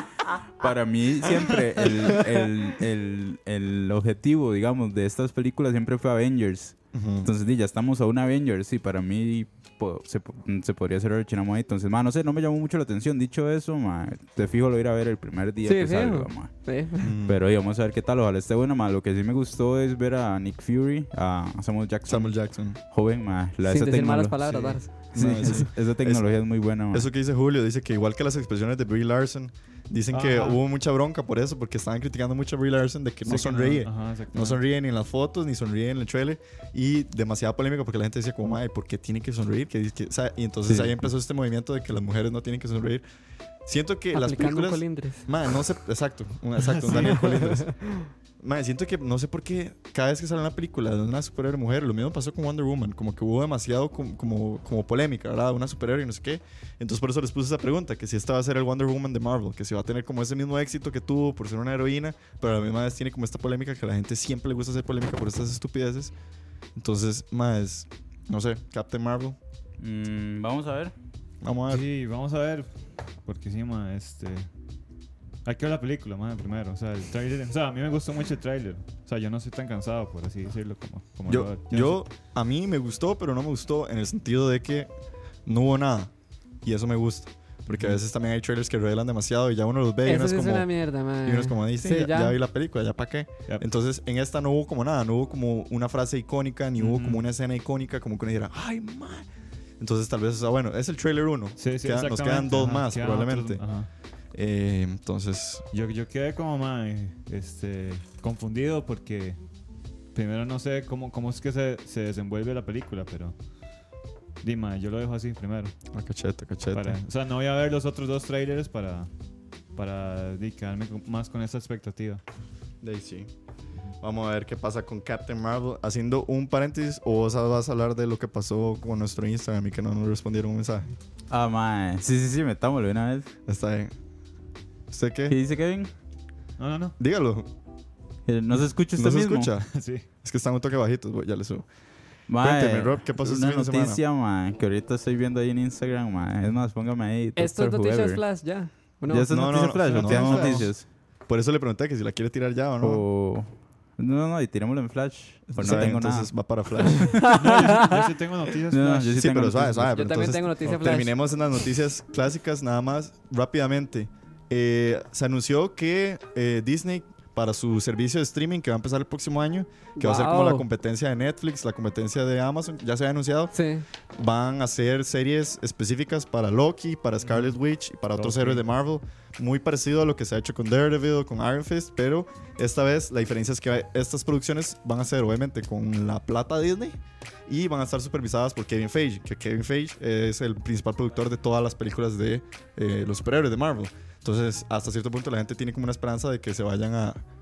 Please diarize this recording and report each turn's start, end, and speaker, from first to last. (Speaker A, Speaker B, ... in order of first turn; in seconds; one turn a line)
Speaker A: 0.6-16.5
Speaker B: 6.9-7.3
Speaker C: 15.6-17.1
Speaker B: 17.0-17.4
Speaker A: 17.3-22.4
Speaker B: 22.1-22.8
Speaker A: 22.9-24.4
Speaker C: 23.6-25.7
Speaker D: 24.5-24.8
Speaker A: 25.0-27.1
Speaker B: 25.1-26.2
Speaker B: 26.9-43.0
Speaker D: 30.1-30.6
Speaker D: 33.2-34.6
Speaker D: 40.7-41.0
Speaker B: 43.7-47.7
Speaker C: 44.1-45.2
Speaker D: 46.6-47.5
Speaker C: 47.1-48.1
Speaker B: 48.4-66.1
Speaker B: 66.8-69.4
Speaker A: 69.8-70.9
Speaker B: 71.4-71.8
Speaker D: 71.7-72.7
Speaker D: 73.3-74.5
Speaker D: 75.5-82.0
Speaker B: 81.3-84.9
Speaker B: 85.5-86.1
Speaker B: 86.6-99.3
Speaker D: 87.7-88.0
Speaker C: 90.0-92.4
Speaker D: 96.8-97.2
Speaker B: 99.8-103.6
Speaker D: 101.6-103.9
Speaker B: 104.3-105.7
Speaker D: 105.7-109.4
Speaker D: 110.1-113.4
Speaker D: 114.4-115.7
Speaker B: 115.9-117.0
Speaker D: 116.7-119.1
Speaker D: 119.8-122.2
Speaker B: 122.8-123.3
Speaker B: 124.0-130.9
Speaker A: 131.3-133.3
Speaker B: 133.5-133.9
Speaker B: 134.9-135.4
Speaker A: 135.3-135.9
Speaker D: 136.6-136.9
Speaker B: 137.0-137.5
Speaker A: 138.3-139.5
Speaker B: 139.0-139.7
Speaker D: 139.7-140.1
Speaker B: 140.2-141.7
Speaker A: 142.3-148.2
Speaker B: 142.4-144.0
Speaker C: 147.4-149.3
Speaker A: 149.1-150.9
Speaker B: 149.3-150.7
Speaker D: 149.9-150.7
Speaker B: 151.3-153.1
Speaker A: 152.8-156.3
Speaker B: 155.5-157.2
Speaker C: 157.0-158.0
Speaker A: 157.1-157.3
Speaker D: 157.2-159.2
Speaker A: 158.7-160.0
Speaker B: 159.1-173.5
Speaker C: 159.9-161.1
Speaker C: 170.0-170.7
Speaker C: 173.5-173.8
Speaker B: 174.2-197.2
Speaker D: 177.2-177.5
Speaker D: 178.2-178.6